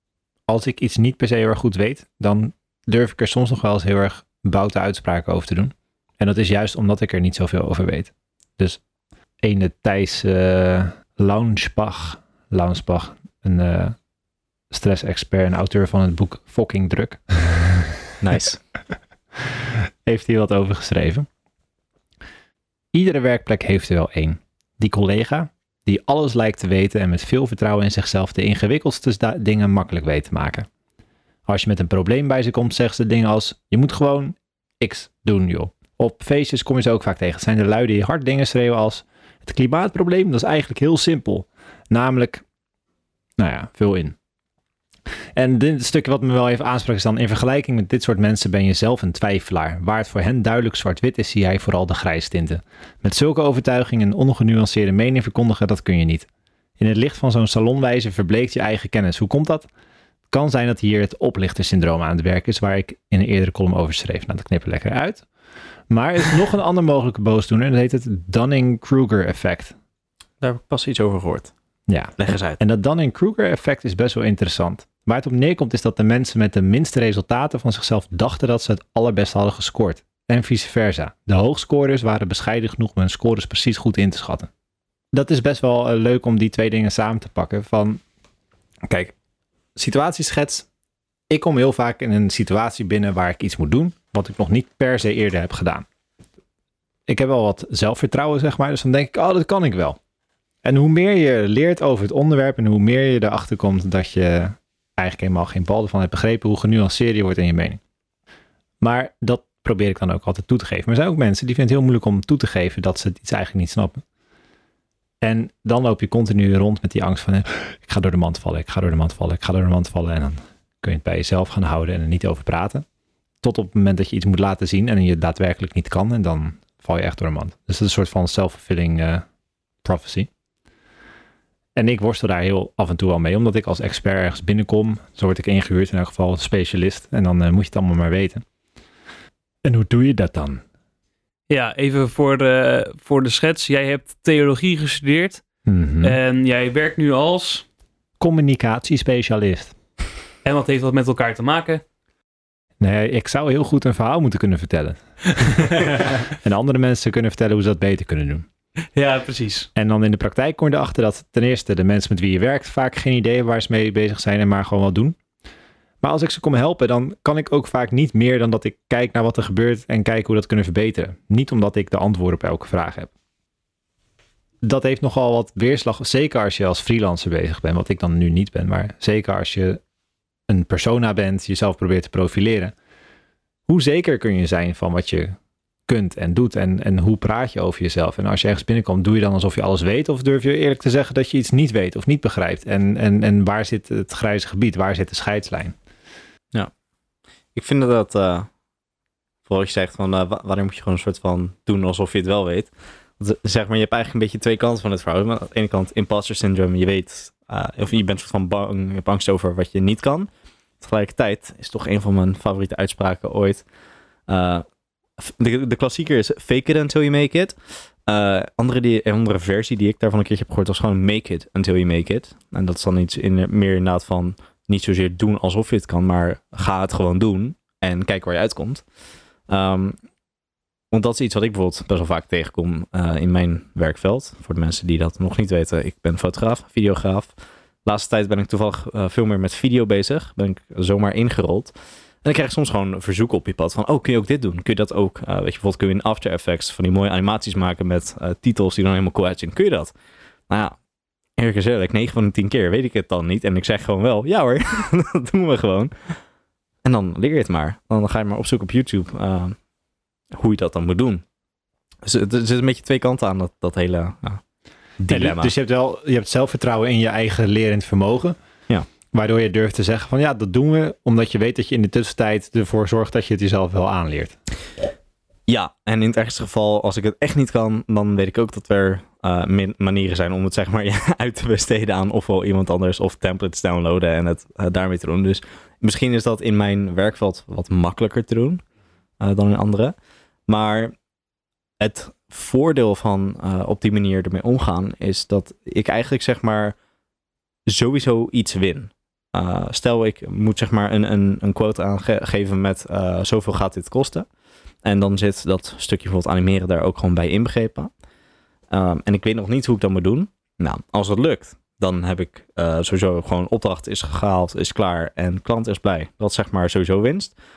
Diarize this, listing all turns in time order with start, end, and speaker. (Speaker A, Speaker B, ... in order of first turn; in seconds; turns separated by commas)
Speaker A: 0.5-8.8, Speaker A: 9.4-13.9, Speaker A: 14.7-17.8, Speaker B: 18.2-18.6, Speaker A: 20.1-21.3, Speaker A: 22.9-30.7, Speaker A: 31.5-42.4, Speaker A: 43.4-44.1, Speaker A: 45.4-56.3, Speaker A: 56.8-59.7, Speaker A: 60.3-65.3, Speaker A: 65.9-69.7, Speaker B: 70.4-71.5, Speaker A: 71.9-84.5, Speaker B: 72.2-72.6, Speaker A: 85.1-88.0, Speaker A: 88.9-89.1, Speaker A: 89.8-90.7, Speaker A: 91.3-95.8, Speaker A: 97.1-100.0, Speaker A: 100.6-107.8, Speaker A: 108.8-114.0, Speaker A: 115.2-122.8, Speaker A: 123.4-129.2, Speaker A: 129.8-130.3, Speaker A: 131.8-138.4, Speaker A: 139.6-140.6, Speaker C: 141.5-145.4, Speaker A: 145.7-146.2, Speaker C: 146.0-147.6, Speaker A: 148.2-149.7, Speaker C: 150.4-151.8, Speaker A: 152.8-158.4, Speaker C: 158.9-159.7, Speaker A: 159.7-165.2, Speaker A: 166.0-173.1, Speaker A: 174.6-179.8, Speaker A: 180.5-182.7, Speaker A: 183.7-185.3, Speaker A: 185.9-195.7, Speaker B: 197.5-198.5, Speaker B: 199.5-210.3, Speaker B: 210.8-213.6, Speaker B: 214.3-214.6, Speaker B: 215.2-228.8, Speaker B: 229.5-230.0, Speaker B: 230.9-237.3, Speaker B: 237.8-249.9, Speaker B: 250.5-250.8, Speaker B: 251.4-256.2, Speaker B: 256.8-259.6, Speaker B: 260.3-261.2, Speaker B: 262.0-264.4, Speaker B: 265.0-265.5, Speaker A: 265.1-268.4, Speaker A: 269.1-274.4, Speaker B: 275.5-288.6, Speaker B: 289.2-289.9, Speaker B: 290.5-290.9, Speaker B: 291.8-296.8, Speaker B: 297.7-304.3, Speaker B: 304.8-307.9, Speaker B: 308.7-317.3